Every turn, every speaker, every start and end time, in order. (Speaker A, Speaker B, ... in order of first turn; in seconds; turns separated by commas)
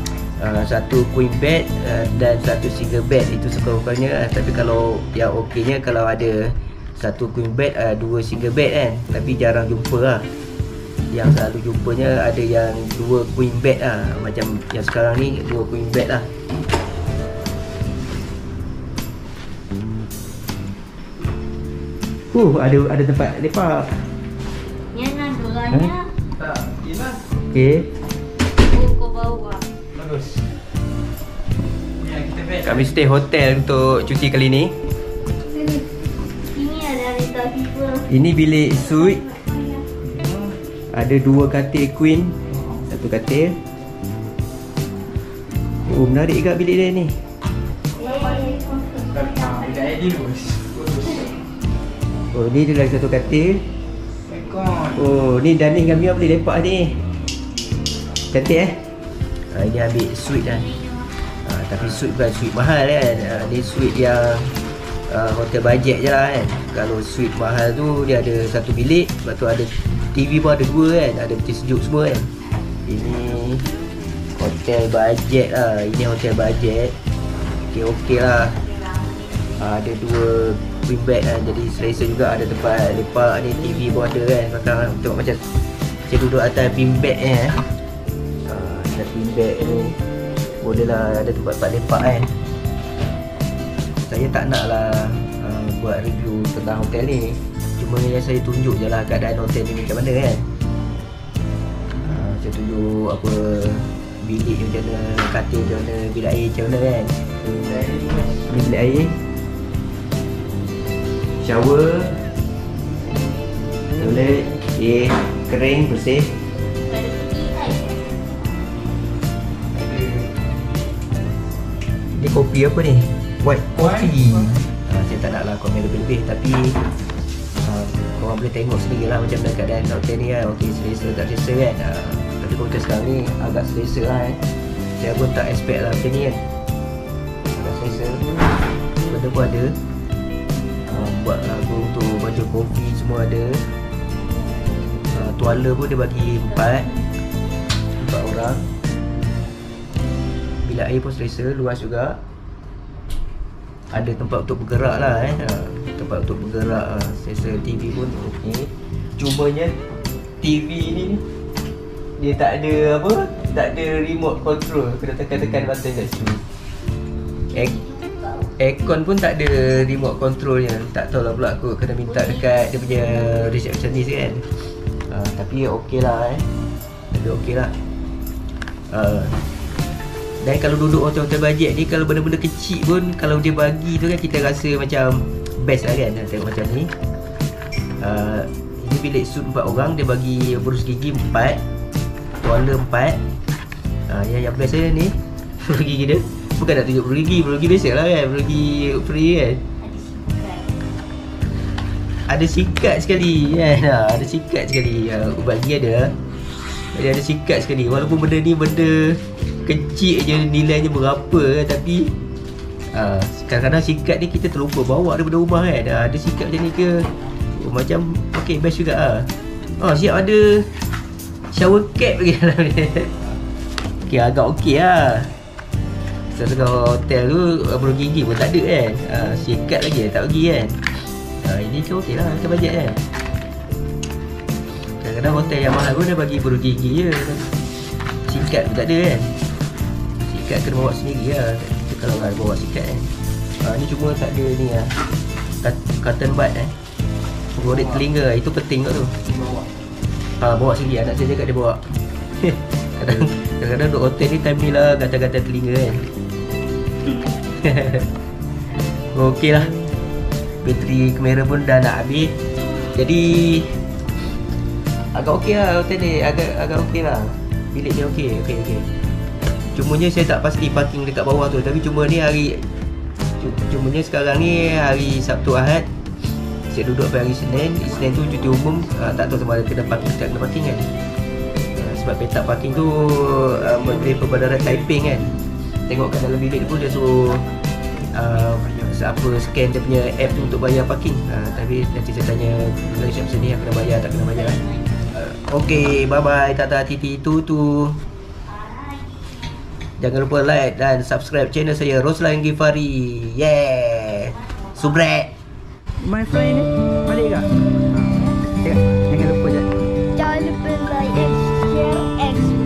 Speaker A: 0.2-10.3, Speaker A: 11.1-16.3, Speaker A: 22.3-24.0, Speaker B: 24.9-26.1, Speaker C: 26.4-27.3, Speaker A: 27.5-27.9, Speaker B: 28.6-29.7, Speaker C: 29.9-30.5, Speaker C: 32.0-32.8, Speaker A: 32.6-34.7, Speaker B: 35.5-35.9, Speaker B: 36.4-38.1, Speaker A: 38.0-39.2, Speaker B: 38.9-39.9, Speaker C: 40.0-40.6, Speaker A: 40.9-43.6, Speaker A: 45.8-47.2, Speaker B: 48.0-49.9, Speaker C: 49.1-51.3, Speaker A: 52.3-53.6, Speaker C: 54.3-55.0, Speaker A: 54.9-57.0, Speaker A: 58.3-58.8, Speaker A: 59.4-64.5, Speaker A: 65.1-72.3, Speaker A: 72.8-73.6, Speaker A: 74.3-76.9, Speaker A: 77.7-78.6, Speaker B: 78.6-79.5, Speaker A: 79.6-85.4, Speaker A: 86.0-87.7, Speaker A: 88.5-90.0, Speaker A: 90.6-92.3, Speaker A: 94.0-100.5, Speaker A: 102.0-107.2, Speaker C: 107.5-108.5, Speaker A: 108.5-109.2, Speaker A: 111.4-112.2, Speaker A: 114.0-116.3, Speaker B: 116.8-118.2, Speaker C: 119.7-120.3, Speaker A: 122.1-126.8, Speaker C: 123.8-124.3, Speaker A: 127.6-134.4, Speaker A: 135.0-136.4, Speaker A: 137.5-138.3, Speaker A: 139.0-139.8, Speaker A: 140.8-143.6, Speaker B: 144.4-145.0, Speaker A: 145.1-146.9, Speaker A: 148.0-148.7, Speaker A: 150.6-152.2, Speaker A: 153.9-159.8, Speaker A: 160.4-161.2, Speaker A: 162.2-166.4, Speaker B: 167.5-168.5, Speaker A: 168.6-176.4, Speaker B: 172.1-173.4, Speaker A: 177.1-177.7, Speaker A: 178.9-179.3, Speaker A: 180.4-186.9, Speaker A: 188.0-191.6, Speaker A: 192.4-193.2, Speaker A: 194.1-199.6, Speaker B: 199.8-200.8, Speaker A: 202.3-206.1, Speaker A: 206.9-212.1, Speaker A: 212.9-220.8, Speaker A: 221.5-223.1, Speaker A: 224.0-225.3, Speaker A: 226.2-233.0, Speaker A: 234.8-237.5, Speaker A: 238.2-239.3, Speaker A: 240.2-244.9, Speaker A: 245.6-246.7, Speaker A: 247.6-249.2, Speaker C: 247.6-248.0, Speaker C: 249.3-249.7, Speaker A: 250.4-256.1, Speaker A: 257.4-258.1, Speaker A: 258.9-259.8, Speaker A: 260.6-262.4, Speaker A: 262.9-263.9, Speaker A: 265.1-268.9, Speaker A: 269.7-272.6, Speaker A: 273.4-280.9, Speaker A: 281.7-285.3, Speaker A: 285.9-287.4, Speaker A: 288.1-298.0, Speaker B: 294.6-294.9, Speaker B: 298.4-299.5, Speaker A: 300.0-305.3, Speaker B: 304.3-304.8, Speaker A: 306.0-307.5, Speaker A: 308.2-309.7, Speaker B: 310.4-311.3